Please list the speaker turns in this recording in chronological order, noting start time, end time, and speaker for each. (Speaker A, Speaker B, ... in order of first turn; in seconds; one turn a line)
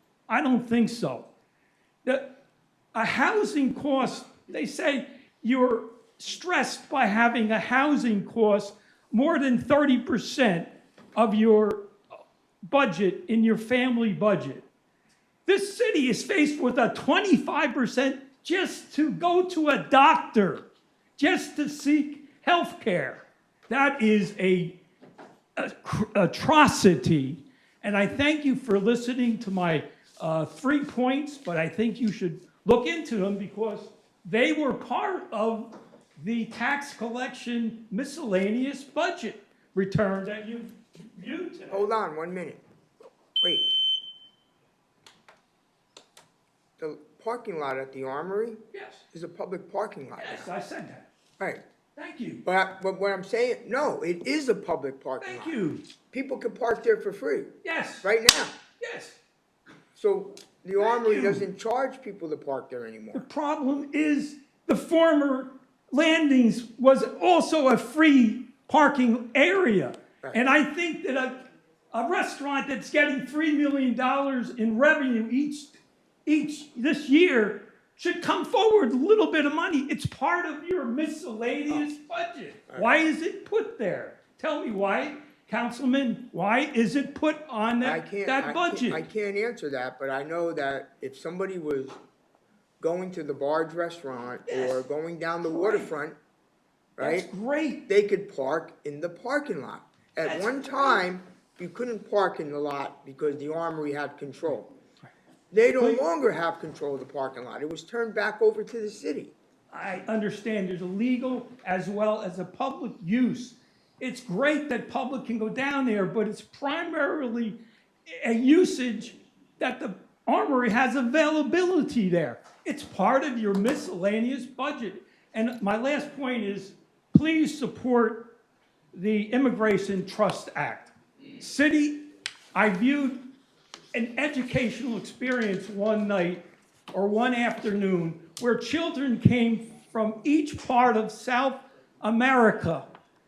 Speaker A: 0.3-1.3
Speaker A: 2.0-2.4
Speaker A: 2.9-11.9
Speaker A: 12.7-14.7
Speaker A: 15.5-20.7
Speaker A: 21.2-24.8
Speaker A: 25.6-41.9
Speaker B: 41.7-42.6
Speaker B: 43.4-43.7
Speaker B: 46.8-48.6
Speaker A: 48.7-49.0
Speaker B: 49.1-50.5
Speaker A: 50.2-51.1
Speaker A: 52.0-52.4
Speaker B: 52.4-55.5
Speaker A: 55.2-55.9
Speaker B: 56.1-58.6
Speaker A: 57.6-58.1
Speaker A: 58.8-59.2
Speaker B: 60.0-63.3
Speaker A: 60.8-61.5
Speaker A: 63.1-89.0
Speaker B: 87.8-92.0
Speaker B: 92.8-96.2
Speaker A: 94.5-94.8
Speaker A: 95.5-95.9
Speaker B: 97.0-97.3
Speaker A: 97.0-97.9
Speaker B: 97.9-104.7
Speaker A: 100.2-101.1
Speaker B: 105.5-109.3
Speaker A: 105.8-106.0
Speaker A: 109.7-128.4
Speaker A: 128.9-133.3
Speaker A: 133.9-142.9